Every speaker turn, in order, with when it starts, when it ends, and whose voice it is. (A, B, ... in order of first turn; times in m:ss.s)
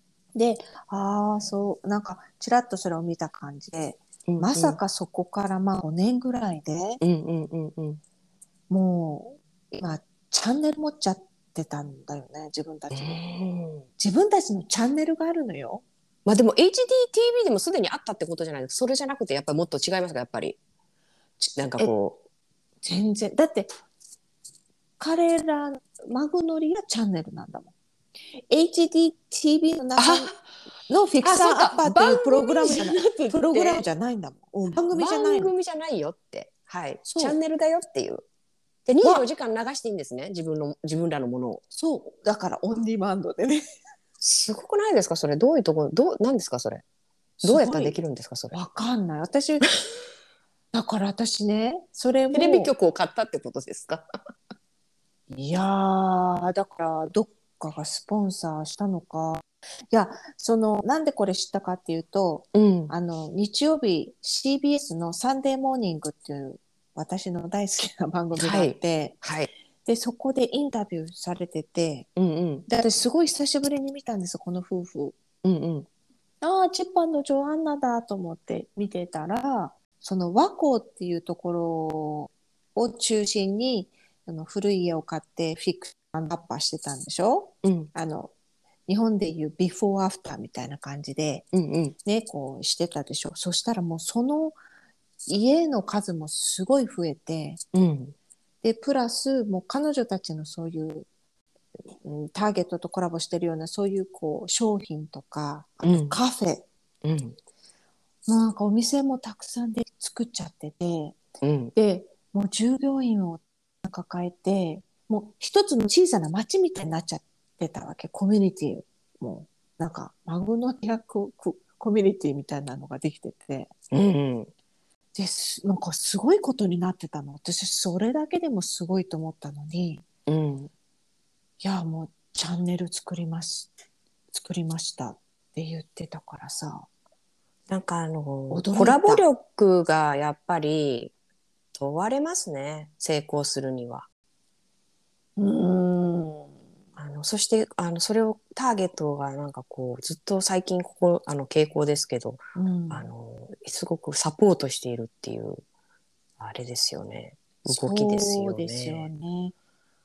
0:00.3-0:07.0 A
0:04.3-0:04.8 B
0:07.0-0:08.0 B
0:08.7-0:13.2 A
0:12.9-0:13.9 B
0:14.0-0:15.8 A
0:16.2-0:20.6 B
0:21.4-0:22.2 B
0:22.8-0:23.7 A
0:25.0-0:27.7 A
0:28.5-0:30.3 A
0:30.0-0:30.5 B
0:30.9-0:35.5 A
0:31.2-0:33.8 B
0:34.7-0:38.2 B
0:37.0-0:37.4 A
0:38.8-0:41.6 B
0:39.0-0:39.3 A
0:41.7-0:43.6 A
0:44.2-0:46.8 B
0:47.4-0:49.7 A
0:47.4-0:48.6 B
0:50.7-0:52.7 A
0:52.3-0:54.0 B
0:55.3-1:09.2 A
1:02.5-1:02.9 B
1:08.3-1:09.5 B
1:09.8-1:12.1 A
1:12.2-1:12.6 B
1:12.7-1:15.2 A
1:15.4-1:15.9 B
1:16.4-1:28.3 A
1:27.6-1:27.9 B
1:28.9-1:31.5 A
1:31.5-1:32.0 B
1:32.0-1:34.5 A
1:35.3-1:37.6 A
1:37.7-1:38.1 B
1:38.6-1:41.1 A
1:42.0-1:46.6 A
1:45.8-1:46.2 B
1:47.0-1:47.4 B
1:48.3-1:51.2 A
1:51.4-1:51.7 B
1:51.8-2:03.7 A
2:03.9-2:04.5 B
2:05.1-2:10.0 A
2:10.3-2:10.7 B
2:11.6-2:13.7 A
2:14.3-2:16.9 A
2:17.7-2:21.1 B
2:18.5-2:19.3 A
2:21.7-2:24.0 B
2:25.4-2:26.5 A
2:27.0-2:35.6 B
2:32.6-2:33.1 A
2:36.4-2:39.1 B
2:37.6-2:39.5 A